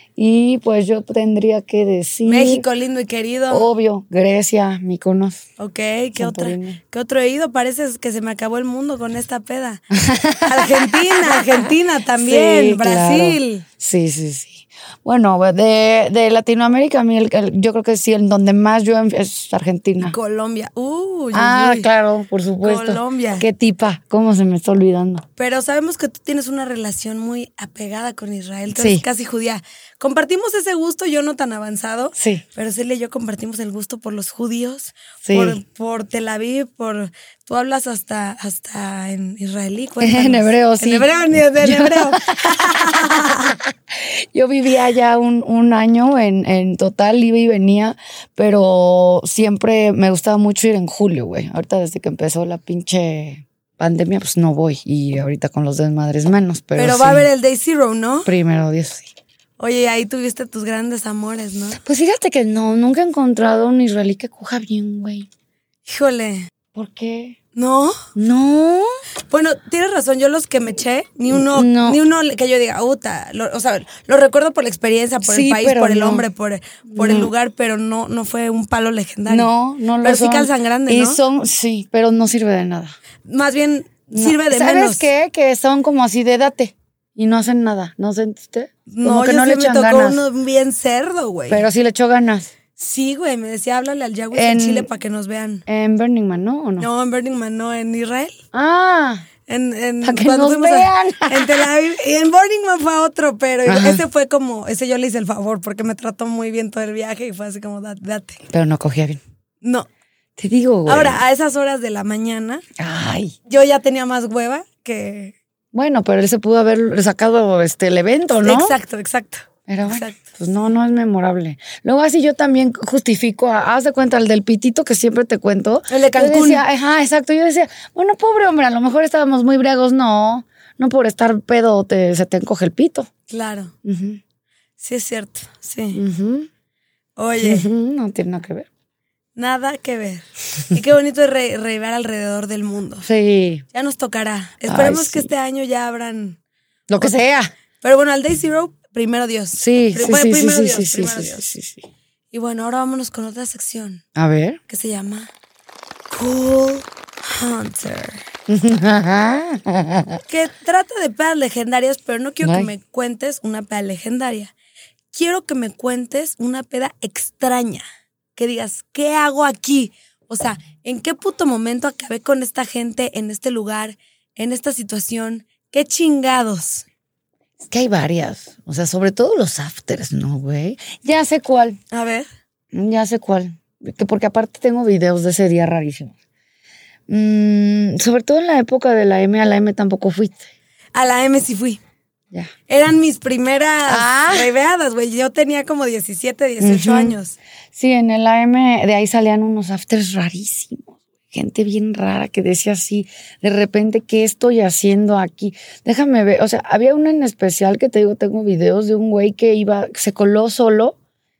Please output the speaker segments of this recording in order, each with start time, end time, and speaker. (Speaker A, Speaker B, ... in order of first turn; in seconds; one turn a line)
Speaker A: 0.2-2.6
Speaker B: 2.2-3.7
Speaker A: 3.5-5.4
Speaker B: 5.6-9.8
Speaker A: 6.2-6.8
Speaker A: 9.9-20.1
Speaker B: 10.4-13.6
Speaker B: 20.0-21.9
Speaker A: 21.3-25.2
Speaker B: 22.6-23.4
Speaker B: 25.4-43.5
Speaker A: 28.7-29.0
Speaker A: 32.1-32.4
Speaker A: 35.2-35.6
Speaker A: 40.0-41.1
Speaker A: 41.6-57.3
Speaker B: 56.7-58.3
Speaker A: 58.2-59.1
Speaker B: 59.6-61.8
Speaker A: 61.7-65.3
Speaker B: 65.8-66.5
Speaker A: 66.7-67.4
Speaker B: 67.5-67.9
Speaker A: 68.1-68.9
Speaker B: 69.3-79.5
Speaker A: 71.3-72.0
Speaker A: 75.2-76.2
Speaker A: 76.9-77.3
Speaker A: 79.3-83.0
Speaker B: 80.0-81.2
Speaker B: 83.2-85.0
Speaker A: 84.1-90.2
Speaker B: 88.9-91.6
Speaker A: 91.5-92.5
Speaker B: 92.8-95.6
Speaker A: 94.3-94.9
Speaker A: 95.7-96.9
Speaker B: 96.8-98.4
Speaker A: 98.5-99.3
Speaker B: 99.5-108.4
Speaker A: 100.0-101.7
Speaker A: 103.7-104.0
Speaker A: 108.5-109.2
Speaker B: 109.6-109.9
Speaker A: 110.4-111.2
Speaker B: 110.8-112.6
Speaker A: 112.8-113.3
Speaker B: 113.5-115.3
Speaker A: 115.7-118.7
Speaker B: 118.4-120.3
Speaker A: 119.7-133.1
Speaker B: 125.9-126.6
Speaker B: 133.3-133.7
Speaker A: 133.8-134.2
Speaker B: 134.8-136.0
Speaker A: 135.9-136.5
Speaker B: 137.2-137.7
Speaker A: 137.4-138.7
Speaker B: 139.3-143.1
Speaker A: 143.0-143.6
Speaker B: 143.7-146.4
Speaker A: 144.7-145.3
Speaker A: 146.9-147.5
Speaker B: 147.8-151.5
Speaker A: 149.6-151.8
Speaker B: 152.3-154.0
Speaker A: 154.2-154.6
Speaker B: 154.7-155.3
Speaker B: 156.1-158.2
Speaker A: 158.5-160.2
Speaker B: 160.3-164.5
Speaker A: 162.4-162.7
Speaker B: 165.1-167.8
Speaker B: 168.3-176.8
Speaker A: 177.6-181.8
Speaker B: 181.9-182.3
Speaker A: 182.7-186.1
Speaker A: 187.1-190.5
Speaker B: 190.9-191.8
Speaker B: 192.7-197.4
Speaker A: 193.9-194.5
Speaker A: 196.6-197.2
Speaker A: 197.7-210.9